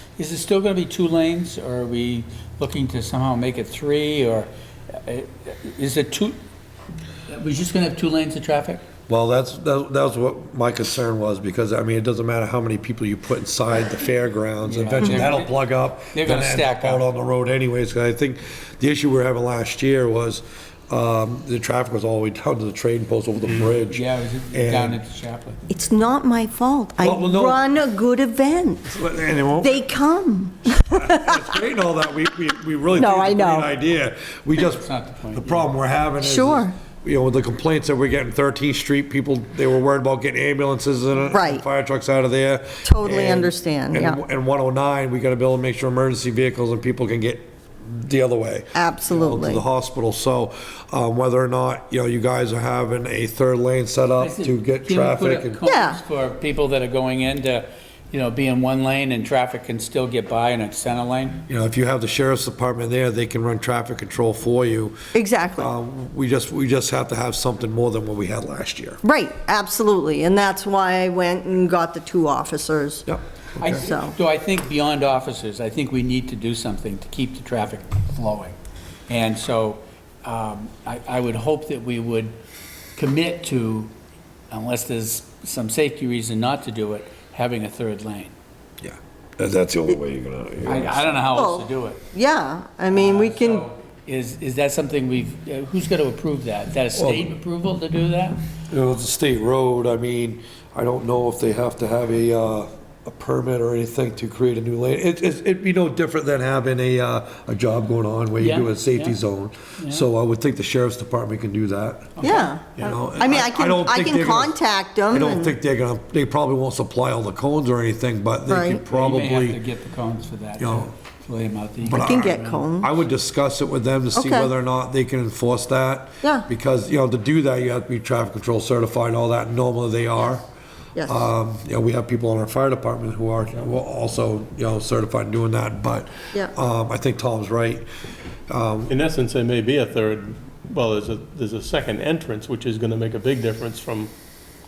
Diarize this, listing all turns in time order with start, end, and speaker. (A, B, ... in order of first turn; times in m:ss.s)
0:00.2-0:06.4 A
0:07.3-0:08.8 A
0:09.1-0:25.0 B
0:14.6-0:15.6 A
0:16.1-0:17.0 A
0:23.9-0:25.6 A
0:25.7-0:28.9 C
0:27.0-0:27.6 B
0:28.8-0:29.8 B
0:29.6-0:31.3 C
0:30.7-0:55.6 B
0:32.9-0:33.7 C
0:34.6-0:35.7 A
0:36.2-0:36.8 C
0:41.3-0:41.6 C
0:42.8-0:44.2 C
0:48.8-0:49.6 C
0:54.2-1:01.4 A
0:55.7-0:56.0 C
1:01.5-1:09.0 B
1:05.1-1:05.7 C
1:09.0-1:13.1 C
1:13.1-1:13.8 B
1:13.6-1:18.6 A
1:13.7-1:14.2 C
1:19.1-1:22.4 A
1:23.0-1:23.9 A
1:24.5-1:28.3 A
1:28.8-1:31.2 B
1:30.6-1:32.0 A
1:31.3-1:33.6 C
1:32.9-1:38.4 A
1:37.0-1:37.3 B
1:38.7-1:52.2 B
1:48.4-1:49.2 A
1:49.8-1:50.1 A
1:52.2-1:52.5 A
1:52.2-1:55.6 C
1:52.8-1:54.6 B
1:55.1-1:59.6 B
1:58.5-1:58.8 C
1:58.9-2:02.6 A
2:00.6-2:00.9 B
2:01.8-2:10.4 B
2:01.9-2:02.9 C
2:04.2-2:04.5 C
2:06.2-2:06.5 C
2:11.0-2:11.3 C
2:11.0-2:17.8 B
2:18.5-2:18.9 B
2:18.9-2:24.1 D